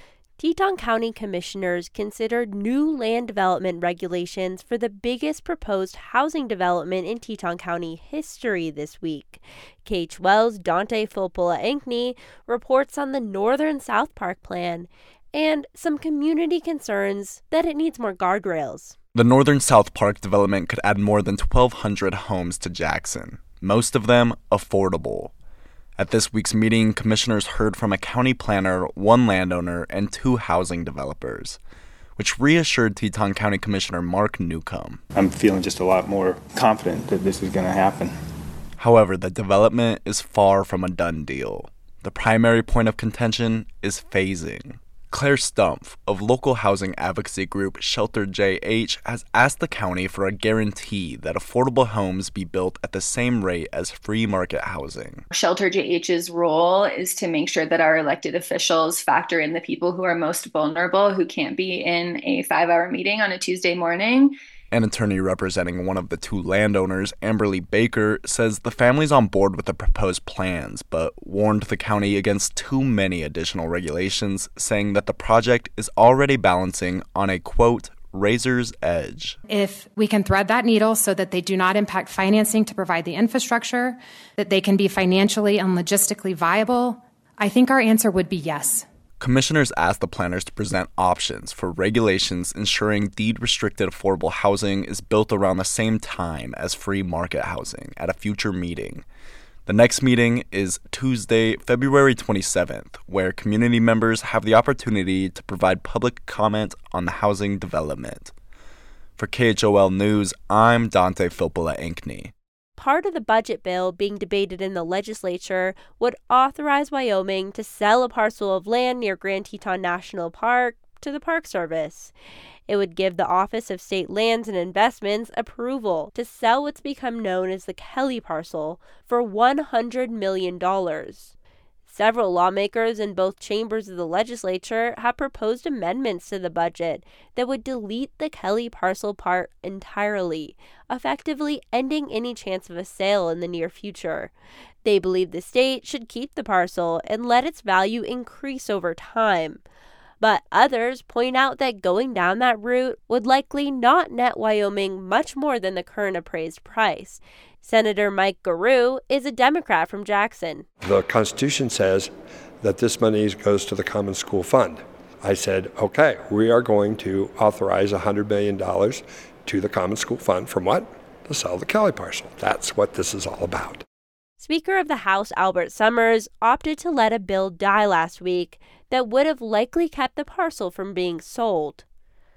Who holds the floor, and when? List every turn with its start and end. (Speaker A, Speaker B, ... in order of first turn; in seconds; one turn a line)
Speaker A: 0.4-18.9
Speaker B: 19.1-25.3
Speaker B: 26.0-31.6
Speaker B: 32.2-35.0
Speaker C: 35.1-38.1
Speaker B: 38.8-55.2
Speaker D: 55.3-64.3
Speaker B: 64.7-79.4
Speaker E: 79.5-88.8
Speaker B: 89.2-99.0
Speaker B: 99.7-108.3
Speaker B: 109.2-112.3
Speaker A: 112.8-122.1
Speaker A: 122.7-131.3
Speaker A: 131.8-144.3
Speaker A: 144.8-149.6
Speaker A: 150.2-160.6
Speaker F: 160.8-162.1
Speaker F: 162.6-173.8
Speaker A: 174.4-181.8